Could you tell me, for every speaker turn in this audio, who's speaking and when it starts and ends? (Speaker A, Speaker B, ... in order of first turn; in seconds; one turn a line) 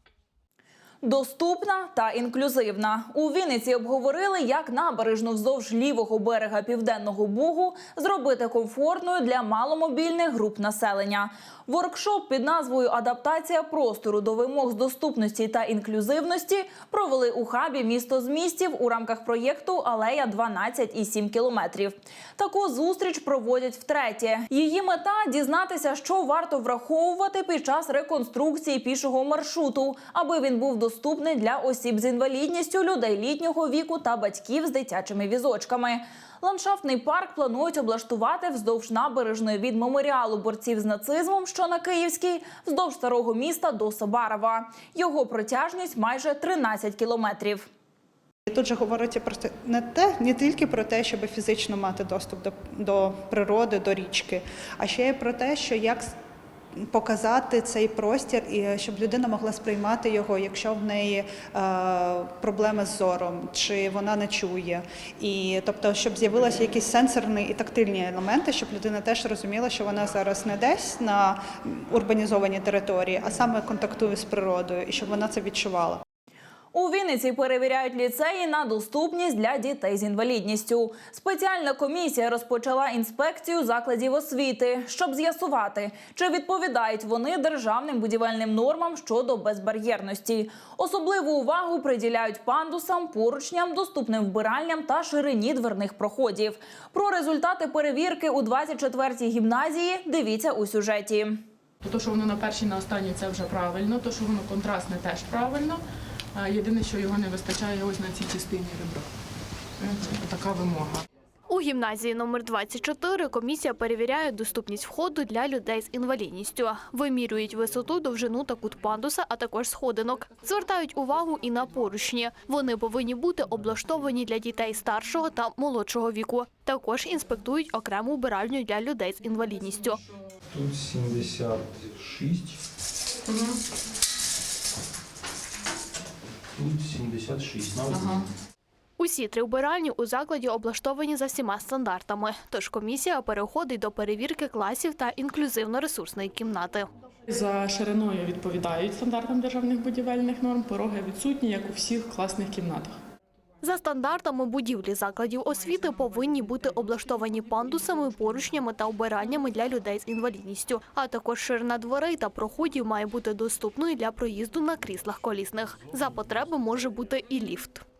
Speaker A: 1.0-47.7
Speaker B: 48.5-56.2
Speaker B: 56.8-76.0
Speaker A: 76.7-101.4
Speaker C: 101.8-105.8
Speaker C: 106.3-109.1
Speaker C: 109.8-111.0
Speaker D: 111.5-130.0
Speaker E: 130.5-132.6
Speaker E: 136.5-138.2
Speaker D: 139.0-146.9
Speaker C: 147.3-153.0
Speaker D: 153.6-167.8